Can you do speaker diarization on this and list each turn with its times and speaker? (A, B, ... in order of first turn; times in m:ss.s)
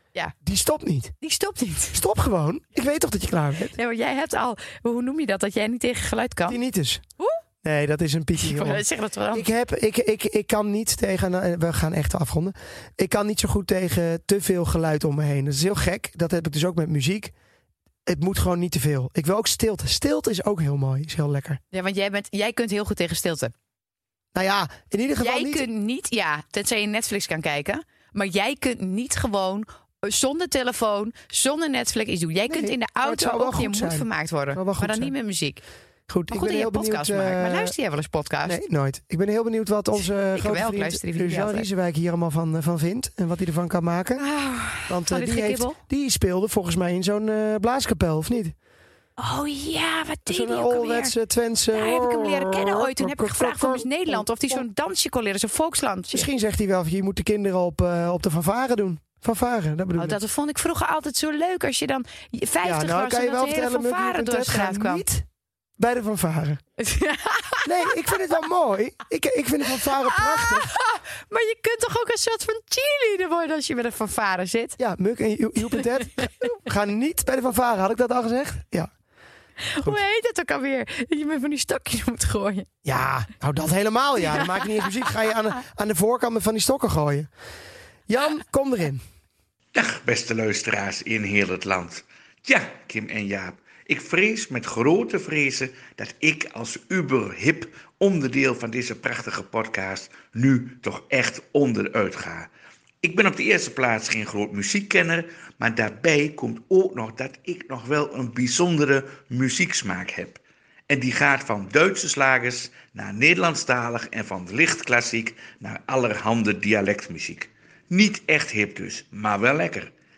0:00.4-0:01.1 A
0:01.2-0:02.0 B
0:01.9-0:03.8 A
0:03.7-0:06.6 B
0:06.5-0:07.0 A
0:07.6-0:17.3 A
0:08.4-0:09.5 B
0:18.1-0:21.6 A
0:21.7-0:23.5 B
0:24.3-0:25.7 A
0:25.2-0:35.6 B
0:32.5-0:35.1 A
0:36.1-0:37.7 A
0:36.3-0:38.6 B
0:38.4-0:44.2 A
0:40.3-0:41.7 B
0:44.2-0:45.8 B
0:44.9-0:48.6 A
0:49.2-0:51.2 B
0:50.3-0:54.6 A
0:51.7-0:56.3 B
0:56.1-1:00.2 A
1:00.0-1:05.0 B
1:02.6-1:05.3 A
1:05.8-1:06.6 A
1:06.8-1:08.2 B
1:07.6-1:10.7 A
1:09.7-1:14.8 B
1:14.8-1:18.9 A
1:15.8-1:16.4 B
1:19.6-1:22.7 B
1:22.8-1:27.3 A
1:24.2-1:25.1 B
1:28.1-1:29.0 A
1:29.7-1:42.5 C
1:43.0-1:59.9 C